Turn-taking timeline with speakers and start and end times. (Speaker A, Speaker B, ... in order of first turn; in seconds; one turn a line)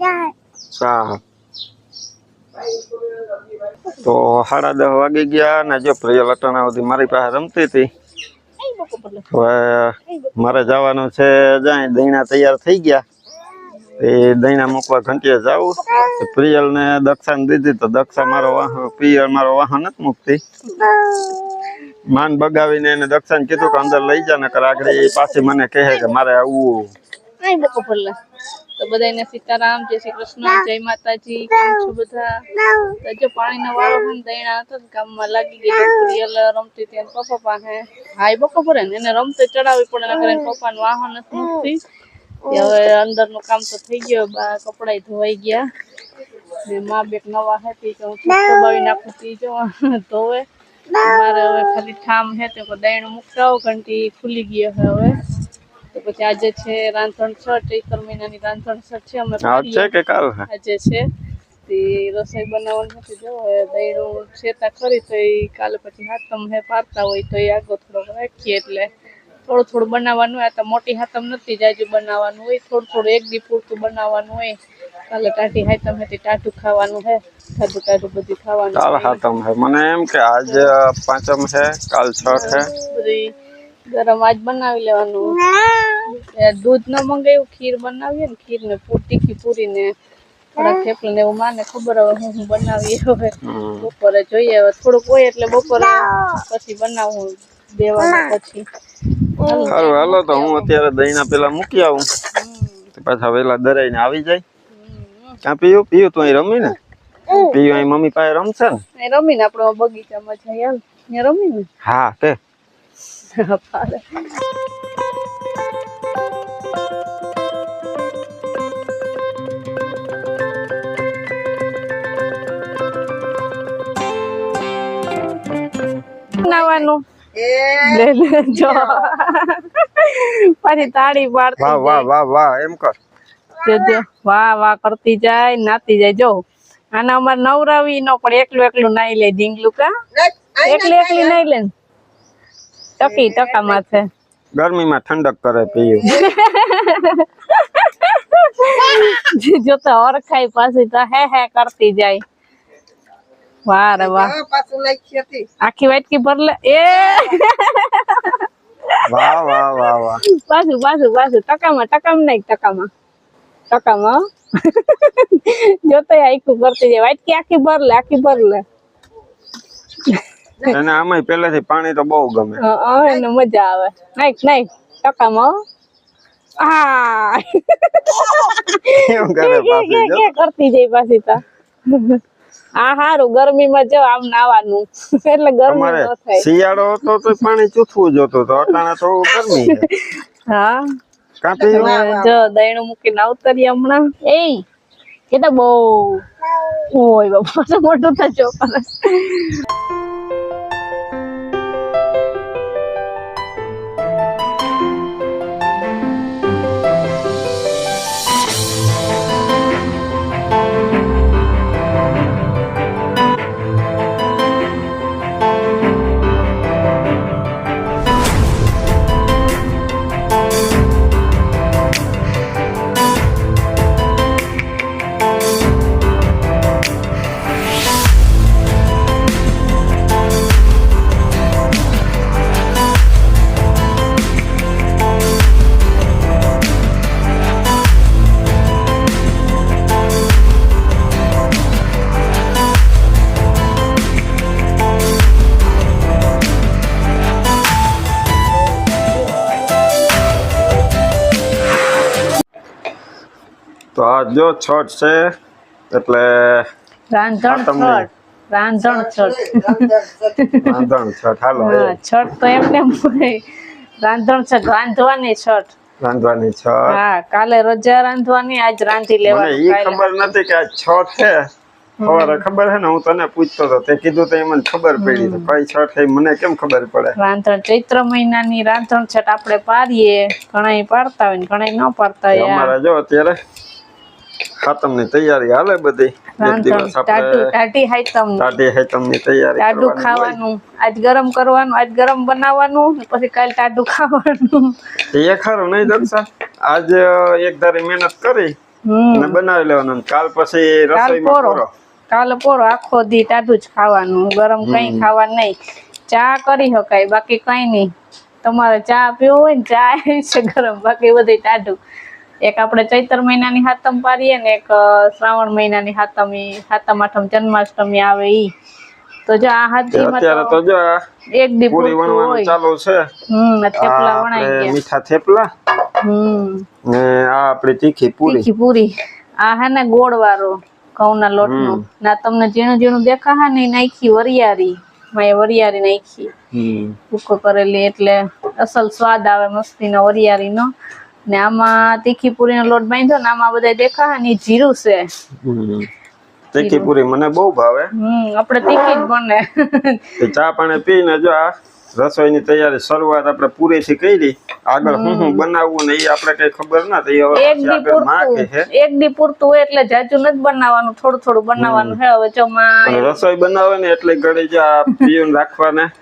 Speaker A: 0.7-1.2
Speaker A: 3.9-7.9
Speaker B: 8.6-9.2
Speaker A: 9.3-13.0
Speaker A: 14.0-20.4
Speaker B: 20.7-21.3
Speaker A: 22.1-26.9
Speaker B: 27.4-28.1
Speaker B: 28.8-41.8
Speaker B: 42.5-45.7
Speaker B: 46.6-55.2
Speaker B: 55.9-59.9
Speaker A: 59.4-60.5
Speaker B: 60.5-61.0
Speaker B: 61.7-68.9
Speaker B: 69.5-74.6
Speaker B: 75.1-79.2
Speaker A: 78.7-82.7
Speaker B: 82.3-83.3
Speaker B: 83.9-85.4
Speaker B: 86.0-89.9
Speaker B: 90.5-98.7
Speaker A: 93.4-93.9
Speaker B: 99.3-100.7
Speaker A: 99.7-102.1
Speaker B: 102.3-102.8
Speaker A: 102.9-104.4
Speaker B: 104.7-105.4
Speaker A: 105.4-106.8
Speaker A: 107.3-108.8
Speaker B: 109.0-111.7
Speaker A: 111.8-112.4
Speaker B: 113.3-114.0
Speaker B: 126.4-127.0
Speaker C: 126.4-129.1
Speaker B: 127.8-132.1
Speaker C: 130.8-131.2
Speaker A: 131.6-132.9
Speaker B: 133.6-136.4
Speaker B: 136.9-139.9
Speaker C: 140.1-141.4
Speaker B: 140.7-141.7
Speaker B: 143.0-144.1
Speaker C: 143.0-143.8
Speaker A: 144.5-146.0
Speaker C: 145.7-146.3
Speaker B: 146.1-152.2
Speaker B: 153.7-154.3
Speaker C: 154.0-155.5
Speaker B: 155.6-162.9
Speaker A: 159.1-160.2
Speaker B: 163.7-168.6
Speaker A: 170.7-172.6
Speaker B: 172.6-175.6
Speaker B: 176.6-182.2
Speaker A: 178.9-180.3
Speaker B: 182.8-186.4
Speaker A: 185.7-189.8
Speaker B: 189.3-190.8
Speaker A: 191.4-191.9
Speaker C: 191.5-192.4
Speaker B: 191.7-194.6
Speaker B: 195.3-199.6
Speaker A: 253.9-255.3
Speaker A: 255.9-256.7
Speaker B: 257.1-259.9
Speaker A: 257.5-258.1
Speaker C: 258.8-260.4
Speaker B: 260.4-260.8
Speaker A: 260.6-262.0
Speaker B: 261.6-263.4
Speaker B: 264.0-265.7
Speaker A: 266.0-267.0
Speaker B: 266.9-270.3
Speaker A: 269.2-271.5
Speaker B: 272.0-272.4
Speaker A: 272.0-277.1
Speaker B: 275.0-275.5
Speaker B: 277.2-282.7
Speaker A: 282.3-283.4
Speaker A: 284.6-287.5
Speaker B: 286.4-288.5
Speaker A: 288.4-290.4
Speaker B: 289.6-294.7
Speaker A: 295.1-298.5
Speaker B: 298.9-299.4
Speaker A: 299.1-301.7
Speaker B: 300.9-305.6
Speaker A: 304.6-305.1
Speaker B: 306.1-307.9
Speaker B: 308.4-311.8
Speaker B: 312.4-318.5
Speaker B: 319.3-320.6
Speaker A: 319.9-321.0
Speaker B: 321.4-322.5
Speaker A: 321.7-323.1
Speaker B: 323.3-324.8
Speaker A: 323.8-325.5
Speaker B: 326.0-326.6
Speaker A: 326.9-328.5
Speaker B: 328.2-336.3
Speaker A: 331.4-331.8
Speaker A: 336.5-337.0
Speaker B: 337.1-340.7
Speaker B: 341.3-345.1
Speaker A: 345.4-345.9
Speaker A: 346.5-347.9
Speaker B: 346.6-346.9
Speaker B: 347.9-350.3
Speaker A: 350.2-358.7
Speaker B: 354.8-355.4
Speaker B: 357.3-363.2
Speaker A: 361.6-362.0
Speaker A: 362.8-365.9